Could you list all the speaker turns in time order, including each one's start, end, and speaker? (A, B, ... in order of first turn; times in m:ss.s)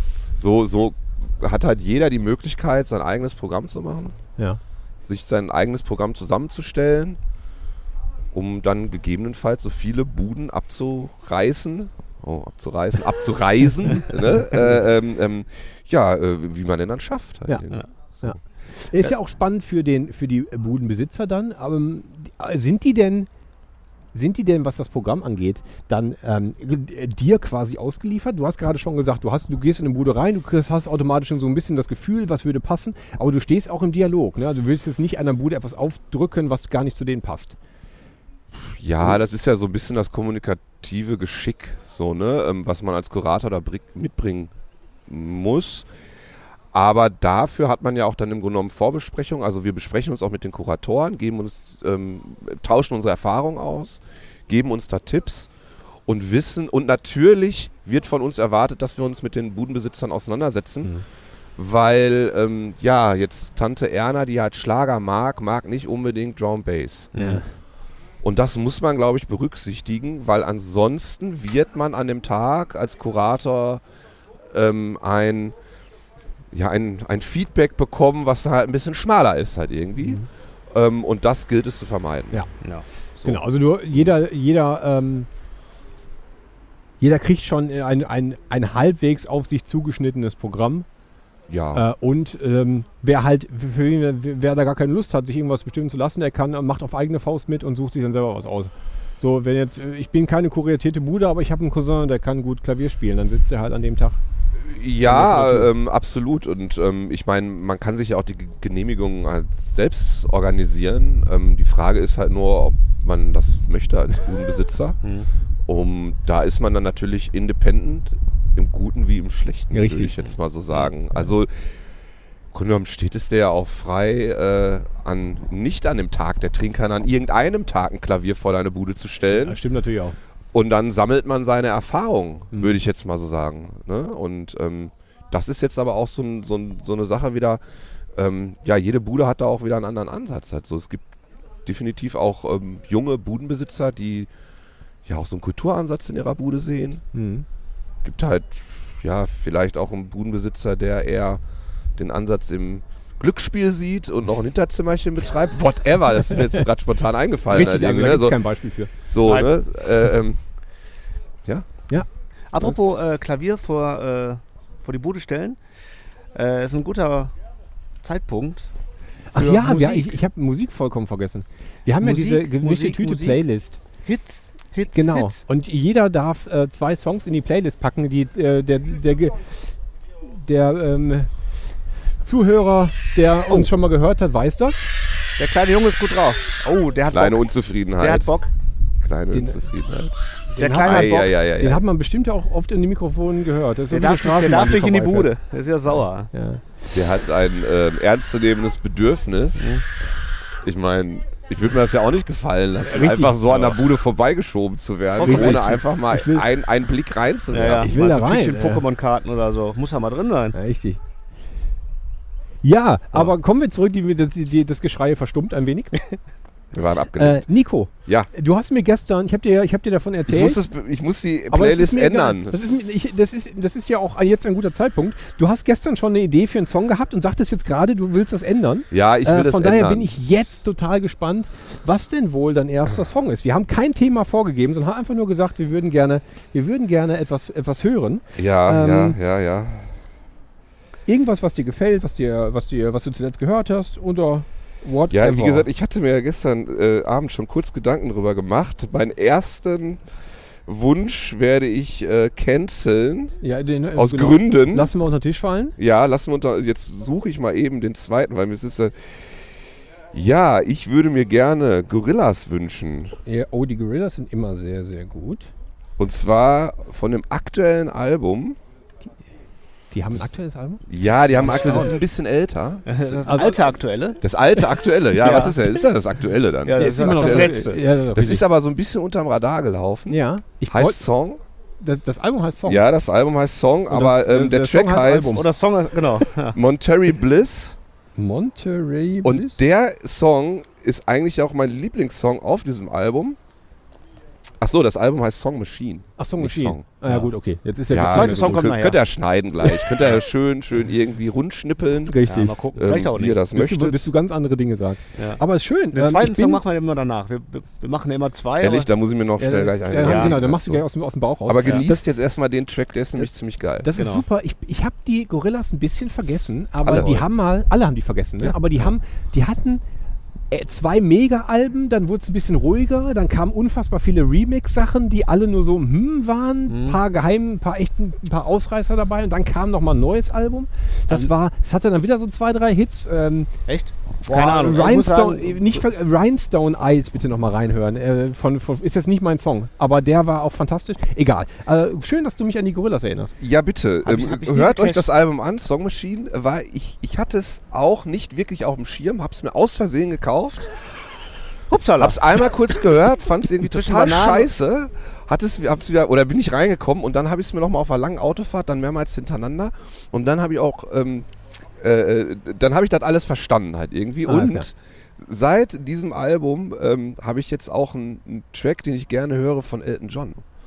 0:00.3-0:04.2 A
0:05.0-0:07.2 A
0:08.3-0:18.3 A
0:18.2-0:23.3 B
0:24.1-0:37.6 B
0:38.5-0:44.5 A
0:45.1-0:45.9 A
0:46.7-0:55.5 A
0:56.1-1:00.9 A
1:01.6-1:07.1 A
1:07.1-1:07.4 C
1:07.2-1:07.4 B
1:08.2-1:13.8 A
1:14.5-1:15.5 A
1:16.5-1:22.4 A
1:23.1-1:24.1 A
1:23.2-1:25.3 B
1:27.0-1:30.8 B
1:31.5-1:31.8 A
1:31.7-1:44.2 B
1:44.6-1:55.0 A
1:45.0-1:45.7 B
1:55.0-1:55.3 C
1:55.7-2:01.6 A
1:59.7-2:00.2 B
2:02.5-2:09.6 A
2:09.4-2:10.2 B
2:10.5-2:17.6 A
2:18.1-2:21.1 A
2:21.6-2:24.3 A
2:25.0-2:27.0 A
2:27.1-2:27.4 B
2:28.0-2:31.4 A
2:32.0-2:38.4 A
2:37.5-2:38.9 B
2:39.1-2:40.4 A
2:39.2-2:39.6 C
2:42.5-2:45.6 C
2:46.3-2:47.3 C
2:48.0-2:48.7 C
2:49.3-2:53.8 B
2:49.3-2:50.2 C
2:52.0-2:53.4 C
2:54.0-2:55.4 C
2:54.9-2:59.4 B
3:00.2-3:01.3 B
3:02.2-3:04.9 B
3:05.4-3:08.5 C
3:07.1-3:08.3 A
3:09.0-3:10.2 A
3:09.3-3:09.6 B
3:10.5-3:15.3 B
3:10.6-3:11.4 C
3:10.8-3:11.8 A
3:13.9-3:16.3 C
3:16.3-3:16.8 B
3:16.9-3:19.8 A
3:19.6-3:19.8 C
3:20.6-3:27.9 A
3:22.8-3:23.8 B
3:25.2-3:25.7 C
3:25.2-3:26.5 B
3:27.5-3:30.6 C
3:27.8-3:28.8 B
3:30.5-3:31.0 B
3:32.6-3:36.0 B
3:36.7-3:37.4 A
3:37.2-3:40.6 B
3:40.3-3:42.8 A
3:41.5-3:59.2 B
3:48.9-3:50.1 A
3:58.4-3:59.9 A
4:01.1-4:05.6 B
4:05.1-4:10.0 A
4:10.6-4:13.4 A
4:13.4-4:15.8 B
4:13.9-4:14.9 A
4:15.8-4:19.4 A
4:20.1-4:23.2 A
4:23.2-4:25.5 B
4:26.0-4:28.6 A
4:29.9-4:32.0 B
4:30.9-4:33.3 A
4:31.5-4:31.8 C
4:32.9-4:34.2 C
4:33.3-4:33.6 B
4:34.2-4:41.4 A
4:35.2-4:35.6 C
4:36.6-4:37.8 C
4:36.8-4:38.4 B
4:40.1-4:41.0 B
4:41.8-4:42.8 B
4:42.6-4:45.5 A
4:43.9-4:45.5 B
4:45.3-4:46.6 C
4:46.5-4:47.8 A
4:48.2-4:49.6 B
4:49.2-4:53.4 A
4:54.6-4:56.8 A
4:56.2-4:58.7 B
4:57.0-4:57.3 C
4:57.9-5:02.2 A
4:57.9-4:59.0 C
5:02.1-5:02.5 B
5:02.2-5:03.4 C
5:02.7-5:04.1 A
5:03.5-5:06.6 B
5:05.9-5:08.9 C
5:08.6-5:10.8 A
5:09.4-5:12.0 B
5:10.0-5:10.3 C
5:11.4-5:13.9 A
5:13.8-5:19.8 B
5:14.0-5:14.2 C
5:16.8-5:17.3 A
5:20.5-5:33.5 B
5:26.7-5:27.0 C
5:33.7-5:35.8 C
5:34.3-5:43.3 B
5:43.4-5:50.8 A
5:44.0-5:45.1 C
5:51.7-5:52.5 C
5:52.0-6:01.3 A
5:53.6-5:54.5 C
6:01.8-6:10.4 A
6:04.3-6:04.7 B